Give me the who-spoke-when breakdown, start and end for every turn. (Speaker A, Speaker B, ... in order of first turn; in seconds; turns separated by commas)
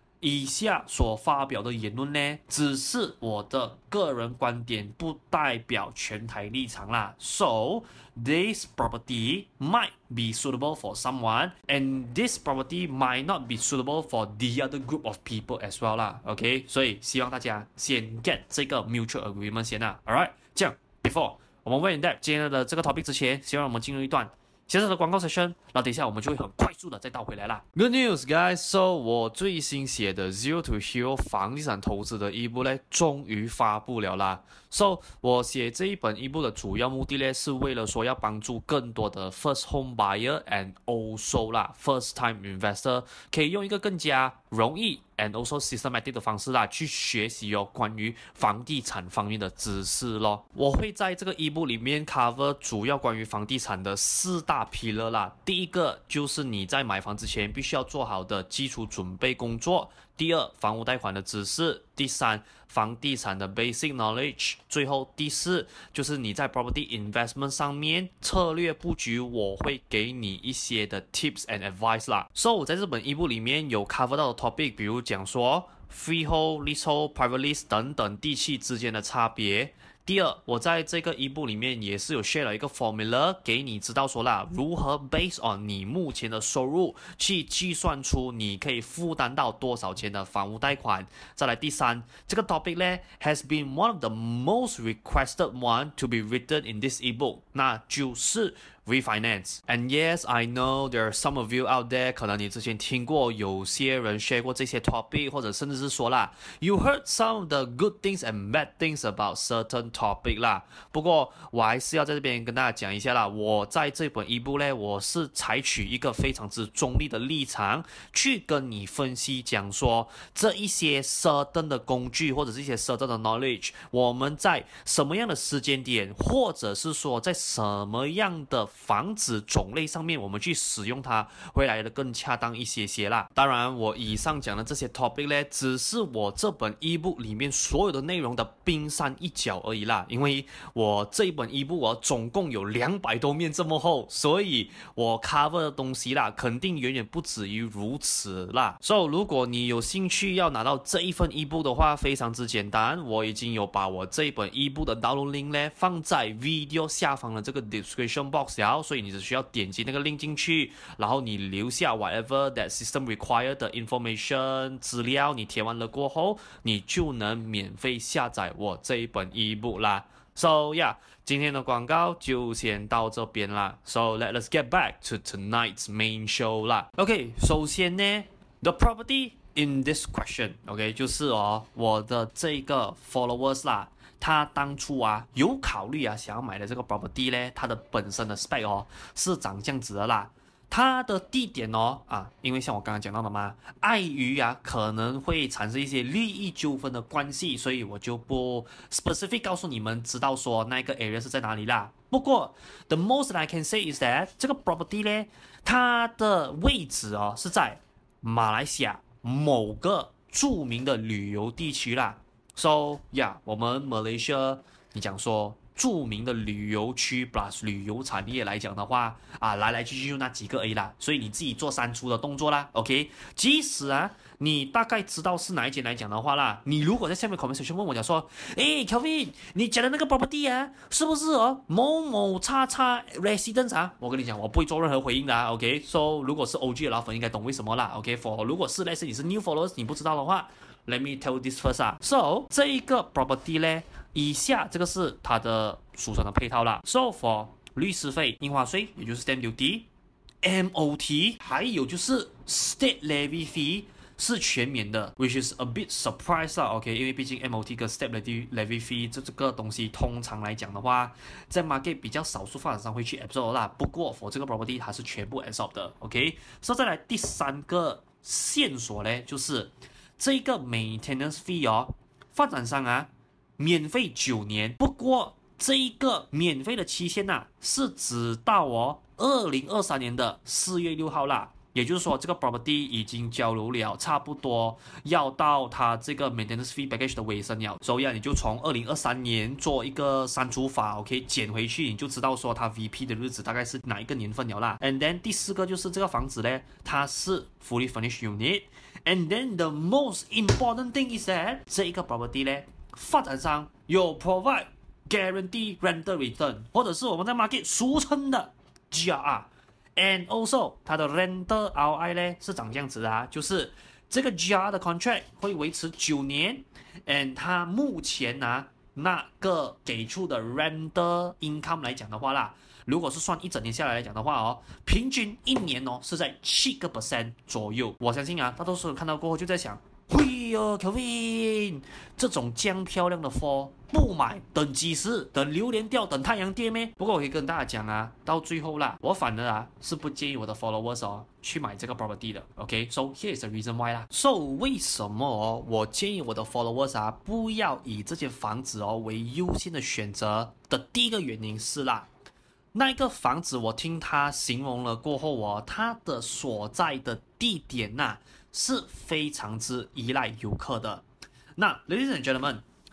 Speaker A: 0.2-249.9, Speaker A: 250.4-352.1, Speaker A: 352.7-361.0, Speaker A: 361.6-362.6